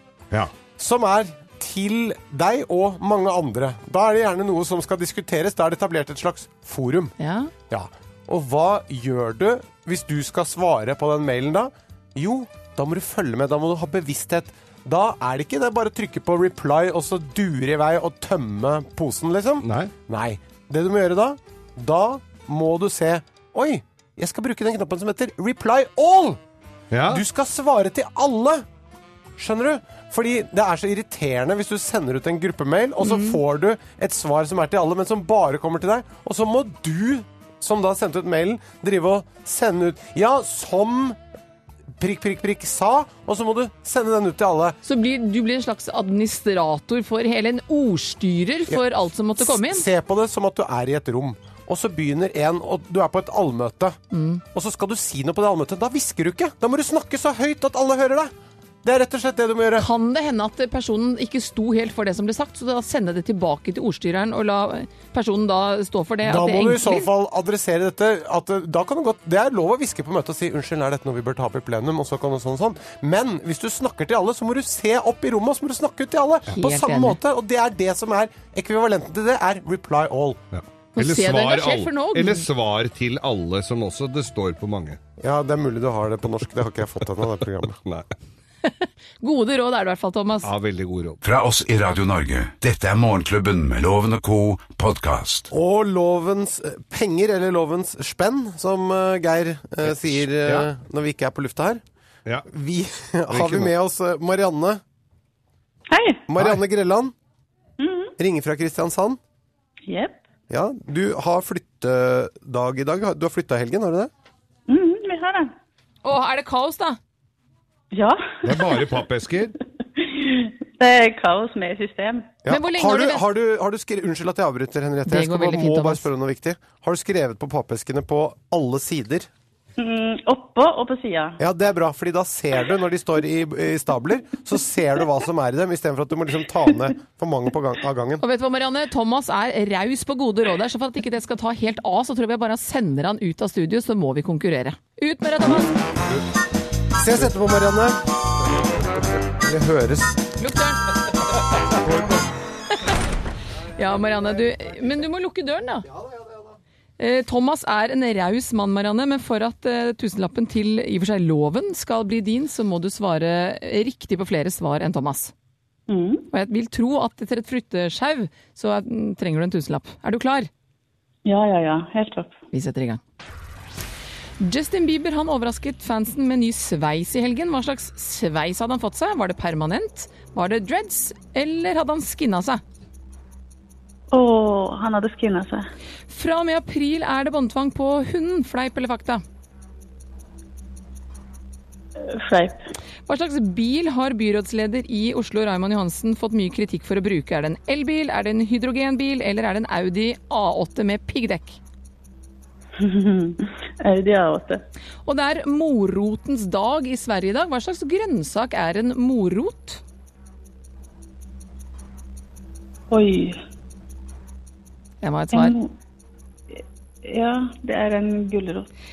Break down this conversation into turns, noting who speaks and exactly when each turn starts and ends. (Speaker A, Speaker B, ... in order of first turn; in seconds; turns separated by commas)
Speaker A: 0.8-7.2, Speaker B: 7.2-7.5, Speaker A: 7.7-26.4, Speaker C: 19.6-19.9, Speaker C: 26.9-27.2, Speaker A: 27.1-28.6, Speaker A: 29.4-41.2, Speaker B: 33.0-33.4, Speaker A: 42.0-44.8, Speaker B: 44.8-49.9, Speaker A: 49.4-54.0, Speaker B: 54.1-54.4, Speaker A: 54.5-58.3, Speaker A: 58.8-59.9, Speaker B: 59.8-67.1, Speaker A: 66.2-80.4, Speaker B: 76.5-77.2, Speaker C: 80.5-85.0, Speaker B: 81.0-82.5, Speaker A: 85.2-87.8, Speaker B: 88.6-90.5, Speaker C: 90.4-91.2, Speaker D: 91.2-95.5, Speaker A: 95.5-101.8, Speaker C: 99.8-100.7, Speaker A: 102.5-104.8, Speaker C: 103.3-103.7, Speaker E: 105.9-106.2, Speaker A: 106.3-107.1, Speaker E: 107.8-108.1, Speaker A: 108.2-109.2, Speaker E: 109.9-110.2, Speaker A: 110.5-114.1, Speaker E: 114.7-115.5, Speaker B: 116.0-117.0, Speaker E: 117.9-118.8, Speaker C: 118.4-119.6, Speaker E: 120.0-122.4, Speaker A: 122.4-129.3, Speaker B: 122.5-123.2, Speaker B: 125.1-126.0, Speaker E: 129.8-131.4, Speaker A: 131.4-138.2, Speaker B: 138.2-145.8, Speaker A: 147.0-148.0, Speaker A: 149.3-150.2, Speaker B: 150.4-150.9, Speaker C: 151.9-152.2, Speaker B: 153.8-155.9, Speaker B: 157.0-165.3, Speaker E: 165.9-166.3, Speaker B: 166.3-170.5, Speaker E: 171.3-172.4, Speaker B: 172.5-173.0, Speaker B: 174.4-182.6, Speaker E: 184.1-185.7, Speaker B: 186.1-189.2, Speaker E: 192.2-192.7, Speaker B: 193.1-201.6, Speaker E: 202.8-204.6, Speaker B: 205.1-209.8, Speaker E: 212.9-213.4, Speaker B: 215.0-215.6, Speaker E: 215.3-215.7, Speaker E: 216.5-218.7